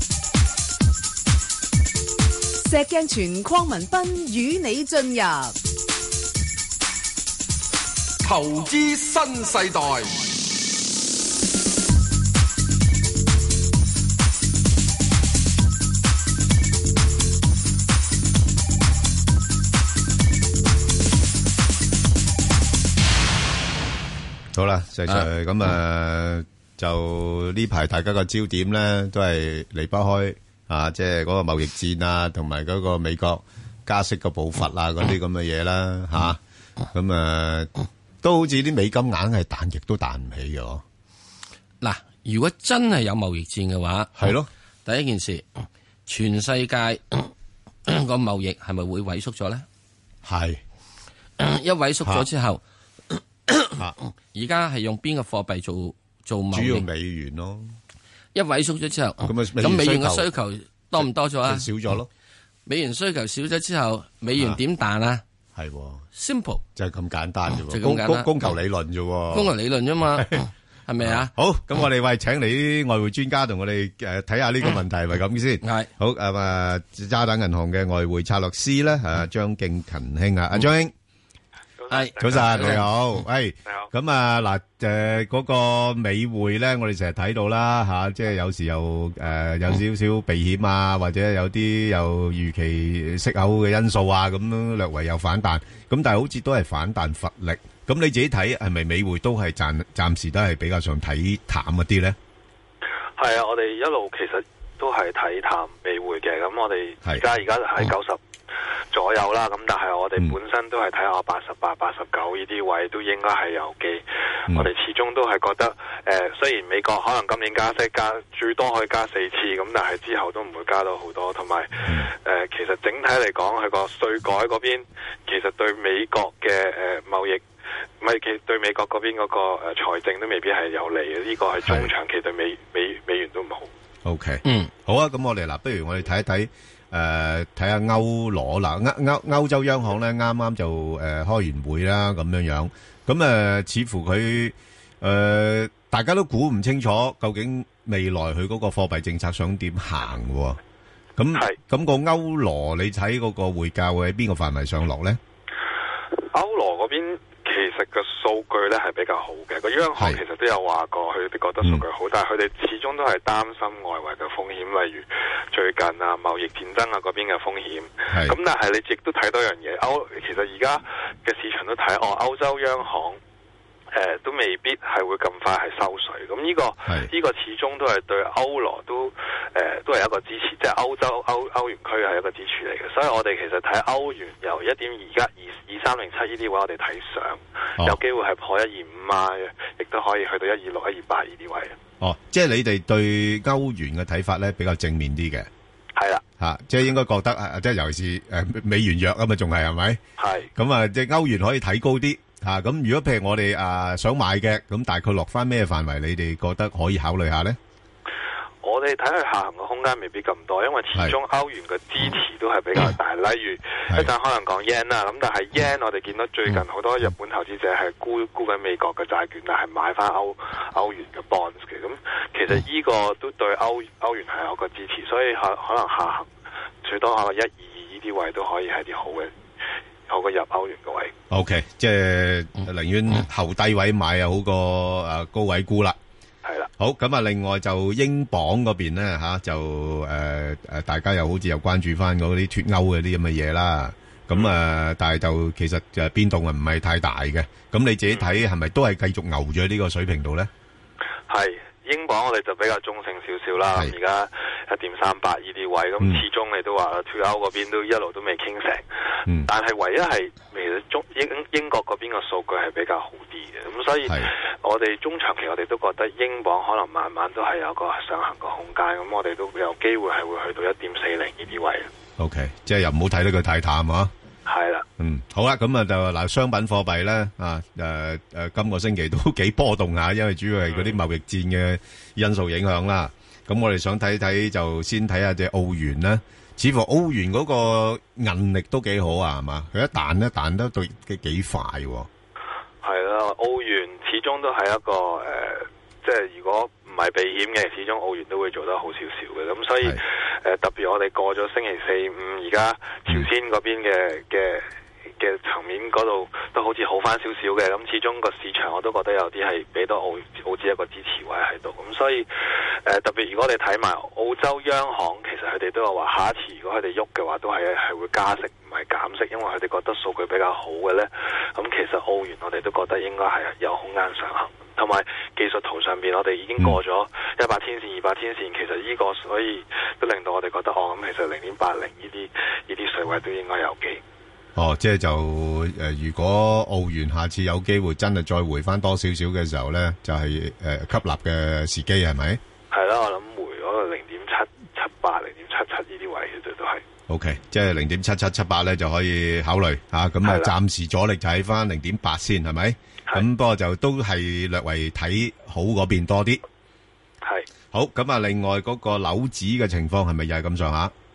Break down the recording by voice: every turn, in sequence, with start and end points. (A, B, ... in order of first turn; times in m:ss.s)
0:02.6-0:05.6 A
0:08.2-0:10.3 B
0:24.5-0:36.4 C
0:36.9-0:37.7 C
0:38.2-0:40.8 C
0:41.8-0:44.2 D
0:44.2-0:44.5 C
0:44.8-0:47.3 D
0:47.9-0:49.6 D
0:50.2-0:50.6 C
0:51.4-0:52.6 D
0:53.5-0:53.8 D
0:54.3-0:56.9 D
0:56.5-0:57.7 C
0:58.4-1:01.7 D
0:59.2-1:00.3 C
1:01.0-1:02.1 C
1:02.7-1:05.2 D
1:05.6-1:06.0 C
1:06.1-1:06.6 D
1:06.8-1:09.5 C
1:07.7-1:08.3 D
1:09.3-1:11.3 D
1:11.0-1:20.9 C
1:15.6-1:15.9 D
1:21.8-1:22.5 E
1:21.9-1:22.9 D
1:22.2-1:42.2 C
1:43.2-1:48.2 E
1:48.9-2:01.7 E
2:02.3-2:07.4 E
2:08.0-2:13.7 E
2:11.6-2:11.9 C
2:14.0-2:30.6 C
2:14.4-2:14.7 D
2:31.2-2:35.2 C
2:36.3-2:53.2 E
2:48.1-2:48.4 C
2:53.9-3:11.7 E
3:12.0-3:15.5 C
3:16.0-3:16.2 E
3:16.4-3:20.0 C
3:20.2-3:20.5 E
3:20.6-3:27.6 C
3:28.6-3:46.3 E
3:46.8-3:49.3 E
3:50.1-3:51.1 E
3:51.3-3:56.0 C
3:56.8-4:10.5 C
4:11.3-4:18.8 E
4:19.5-4:31.9 E
4:24.1-4:24.3 C
4:32.2-4:34.1 C
4:34.5-4:34.8 E
4:35.0-4:52.1 C
4:40.7-4:41.0 E
4:52.8-5:04.7 E
5:05.2-5:12.3 E
5:12.9-5:34.0 E
5:34.6-5:42.4 C
5:42.7-5:46.8 E
5:47.1-5:56.4 C
5:50.2-5:50.5 E
5:57.7-6:00.9 C